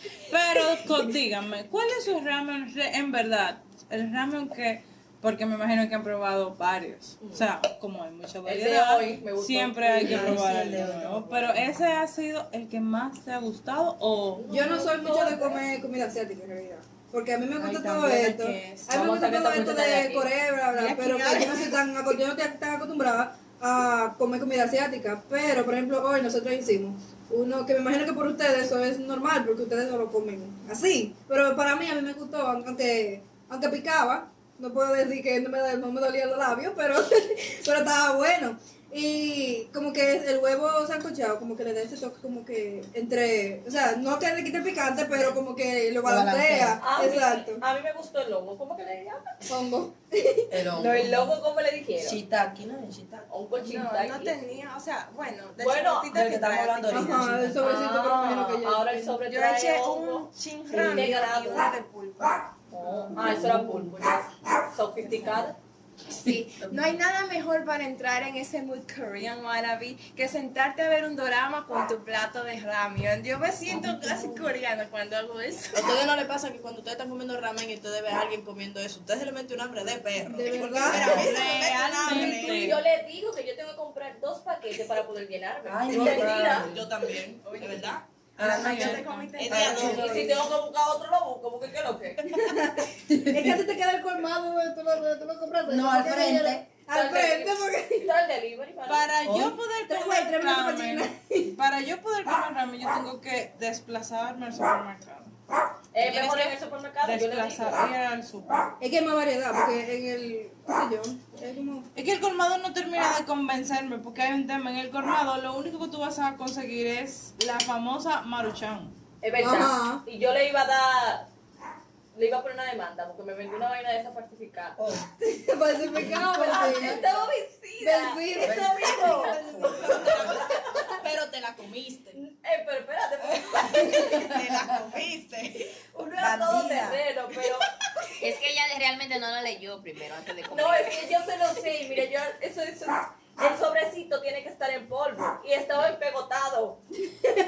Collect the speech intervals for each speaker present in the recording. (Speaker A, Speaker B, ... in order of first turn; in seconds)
Speaker A: 0.3-14.5, 81.0-82.8, 88.4-89.3, 98.9-105.3, 106.0-108.7, 111.9-118.9
Speaker B: 8.4-10.9, 14.3-15.6, 18.6-20.3, 46.8-49.5, 50.8-52.2, 53.3-54.4, 55.6-56.1, 57.6-61.7, 63.1-65.6, 82.0-87.1, 89.7-92.2, 96.9-99.1, 105.9-107.9, 119.2-121.3, 122.1-124.8, 126.2-130.9, 132.1-134.3, 135.9-137.7, 140.5-146.8
Speaker C: 10.0-11.5, 17.6-18.2, 46.0-46.8, 50.5-51.3, 52.0-53.3, 56.1-57.6, 60.7-61.1, 62.7-64.0, 65.0-65.4, 66.2-66.9, 73.7-74.1, 80.9-81.3, 85.6-86.9, 88.4-90.4, 93.1-93.6, 95.7-96.6, 99.2-99.5, 124.8-125.1, 126.0-126.5, 128.4-130.4, 136.2-137.0
Speaker D: 14.5-47.6, 49.5-50.5, 56.9-59.2, 80.2-81.3, 89.9-90.3, 92.2-98.1, 99.8-101.5, 108.8-111.9, 119.4-120.0, 125.2-127.1, 127.8-130.2
Speaker E: 20.7-21.8, 75.7-82.8, 86.0-88.0, 89.4-90.0, 129.9-132.2, 133.7-135.7
Speaker F: 53.6-57.2, 59.2-62.4, 66.2-76.0, 88.4-90.2
Speaker G: 138.2-141.1